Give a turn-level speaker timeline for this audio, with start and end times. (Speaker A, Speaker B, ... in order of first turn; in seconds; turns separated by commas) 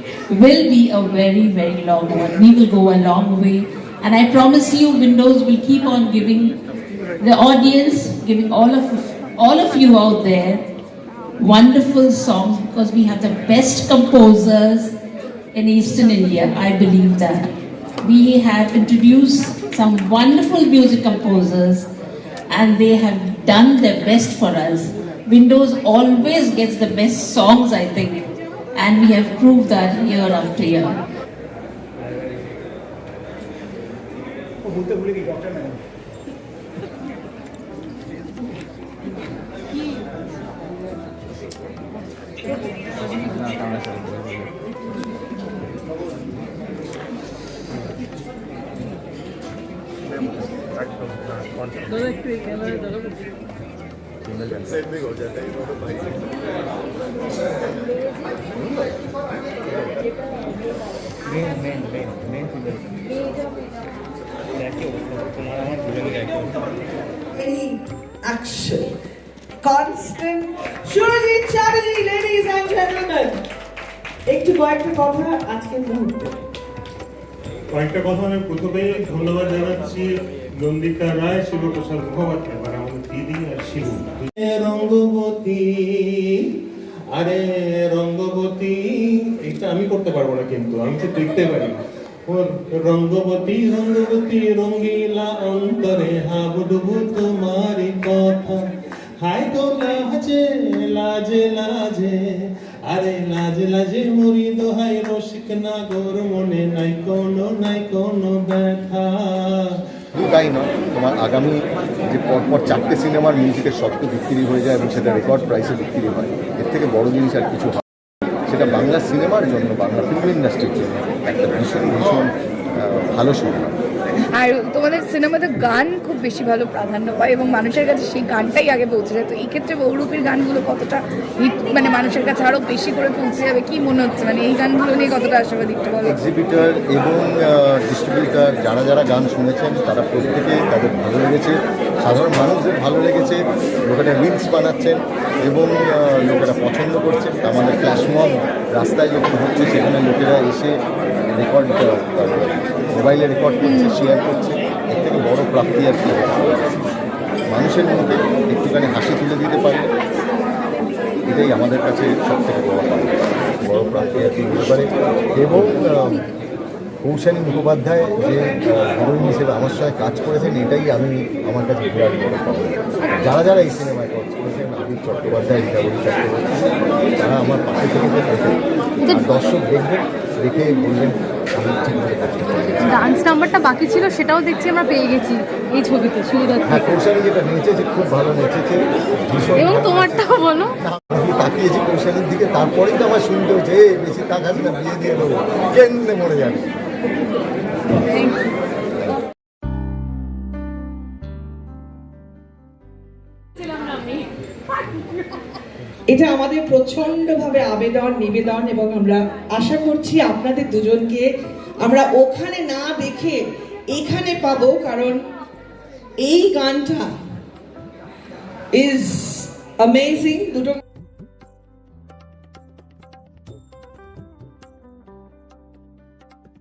Speaker A: 0.3-6.6, Speaker A: 7.2-10.7, Speaker A: 11.4-14.9, Speaker A: 15.5-17.5, Speaker A: 18.0-21.9, Speaker A: 22.5-31.0, Speaker B: 43.4-44.3, Speaker B: 54.5-55.0, Speaker B: 61.7-62.4, Speaker C: 67.3-68.9, Speaker C: 69.6-73.4, Speaker C: 74.3-76.4, Speaker D: 77.7-80.1, Speaker D: 80.6-86.5, Speaker D: 87.1-98.6, Speaker D: 99.2-109.8, Speaker E: 110.1-117.8, Speaker E: 118.5-123.8, Speaker F: 124.3-136.1, Speaker E: 136.0-150.8, Speaker E: 151.3-156.5, Speaker F: 153.7-153.9, Speaker E: 157.5-159.8, Speaker E: 161.2-166.2, Speaker E: 167.0-183.0, Speaker G: 182.9-186.9, Speaker E: 186.6-196.6, Speaker G: 189.6-190.8, Speaker E: 197.9-198.3, Speaker C: 206.1-211.3, Speaker C: 211.8-213.4, Speaker C: 213.9-215.2, Speaker C: 216.2-217.1, Speaker C: 218.7-220.8